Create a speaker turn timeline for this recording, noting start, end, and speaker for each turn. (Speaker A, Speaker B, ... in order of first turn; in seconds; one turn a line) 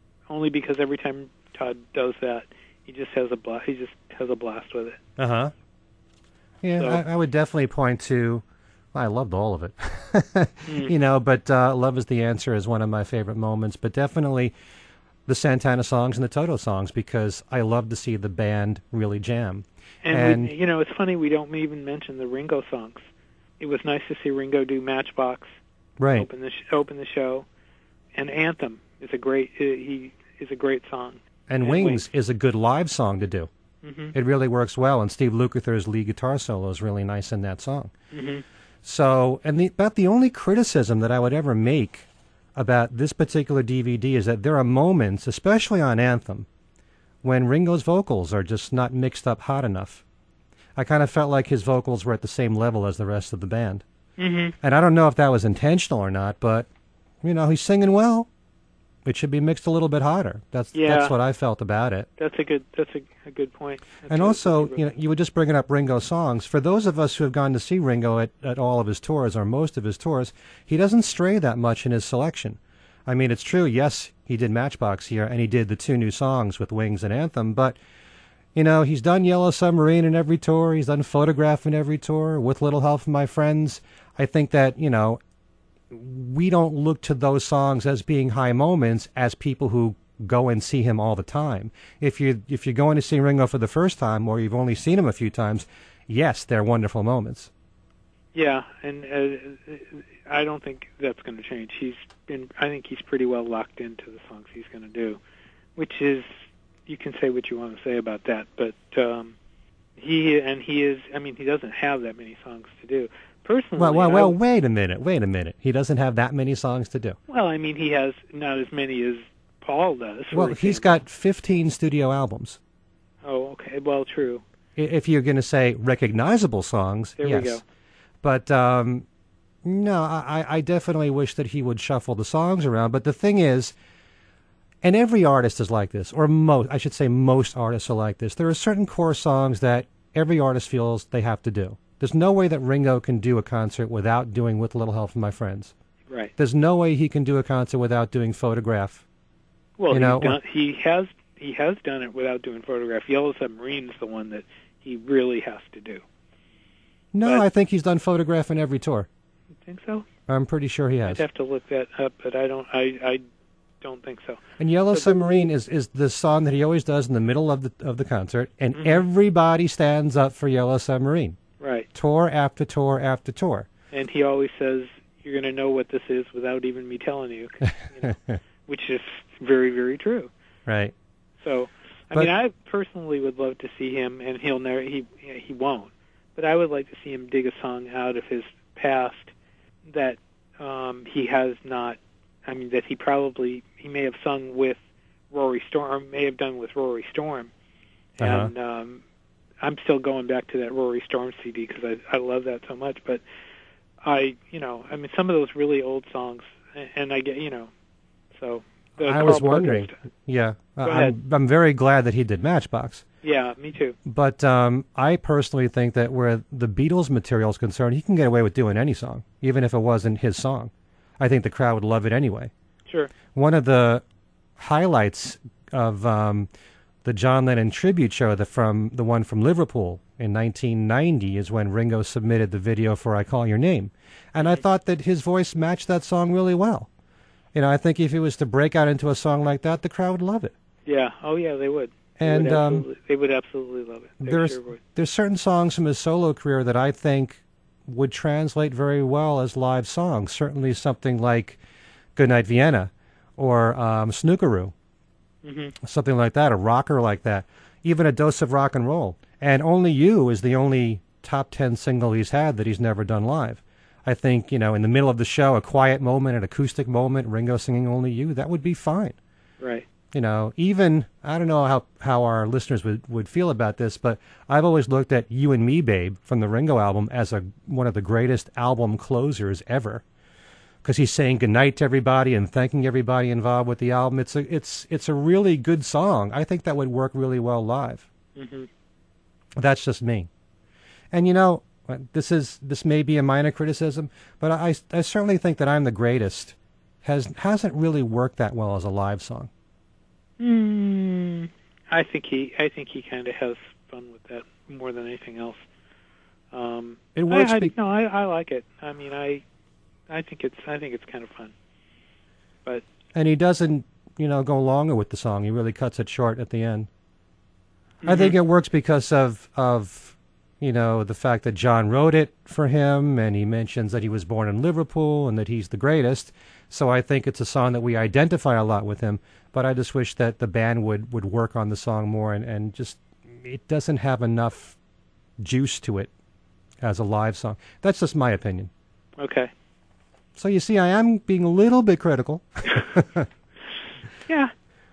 Speaker A: 0.3-5.0
Speaker B: 5.2-5.5
Speaker B: 6.6-14.5
Speaker A: 10.7-10.9
Speaker B: 15.3-20.5
Speaker A: 20.0-23.0
Speaker A: 23.6-25.6
Speaker B: 26.0-26.3
Speaker A: 26.1-27.5
Speaker A: 28.1-32.0
Speaker B: 31.5-33.5
Speaker A: 33.8-34.1
Speaker B: 34.1-37.9
Speaker A: 38.1-38.4
Speaker B: 38.8-46.5
Speaker B: 47.2-50.0
Speaker B: 50.8-53.8
Speaker A: 54.2-54.5
Speaker B: 54.6-56.7
Speaker B: 57.2-58.3
Speaker B: 59.0-62.1
Speaker A: 60.7-61.1
Speaker A: 62.2-64.8
Speaker B: 64.1-77.8
Speaker B: 78.5-85.2
Speaker B: 85.9-97.5
Speaker A: 98.3-105.2
Speaker A: 105.8-106.3
Speaker A: 106.9-109.4
Speaker A: 110.0-114.4
Speaker B: 113.8-117.2
Speaker A: 117.3-121.0
Speaker B: 120.3-122.6
Speaker A: 123.2-124.4
Speaker B: 124.8-127.6
Speaker A: 127.2-127.6
Speaker B: 128.2-129.1
Speaker B: 129.6-133.7
Speaker B: 134.8-145.7
Speaker B: 146.4-149.0
Speaker A: 149.8-156.0
Speaker B: 149.9-150.4
Speaker B: 157.1-159.1
Speaker A: 159.7-160.1
Speaker B: 160.3-161.2
Speaker A: 161.1-163.2
Speaker A: 163.8-164.4
Speaker B: 164.6-171.4
Speaker A: 164.9-165.4
Speaker A: 168.7-169.0
Speaker A: 171.6-171.9
Speaker B: 171.9-173.7
Speaker A: 173.9-180.3
Speaker B: 180.7-180.9
Speaker A: 181.4-189.3
Speaker A: 189.9-194.8
Speaker A: 195.3-197.5
Speaker A: 198.2-199.0
Speaker B: 198.2-198.5
Speaker A: 199.6-203.2
Speaker A: 204.0-207.7
Speaker A: 208.3-209.9
Speaker B: 209.0-213.0
Speaker A: 210.8-211.2
Speaker A: 213.2-214.0
Speaker B: 214.1-222.5
Speaker A: 222.9-223.1
Speaker B: 223.3-224.0
Speaker B: 224.6-226.5
Speaker B: 227.0-236.9
Speaker B: 237.5-240.5
Speaker A: 240.9-244.8
Speaker B: 242.2-242.9
Speaker B: 244.2-251.6
Speaker B: 252.2-254.7
Speaker A: 255.4-255.7
Speaker B: 255.8-269.2
Speaker A: 269.6-269.9
Speaker B: 270.1-280.0
Speaker B: 280.8-288.1
Speaker A: 288.4-288.7
Speaker B: 289.6-290.3
Speaker B: 291.1-299.5
Speaker A: 300.4-305.6
Speaker A: 306.5-309.4
Speaker B: 307.1-307.7
Speaker A: 310.1-311.5
Speaker B: 313.1-316.9
Speaker A: 318.0-318.4
Speaker B: 318.1-334.8
Speaker B: 335.4-336.1
Speaker B: 336.8-338.7
Speaker A: 339.2-339.5
Speaker B: 340.4-343.3
Speaker A: 344.3-344.5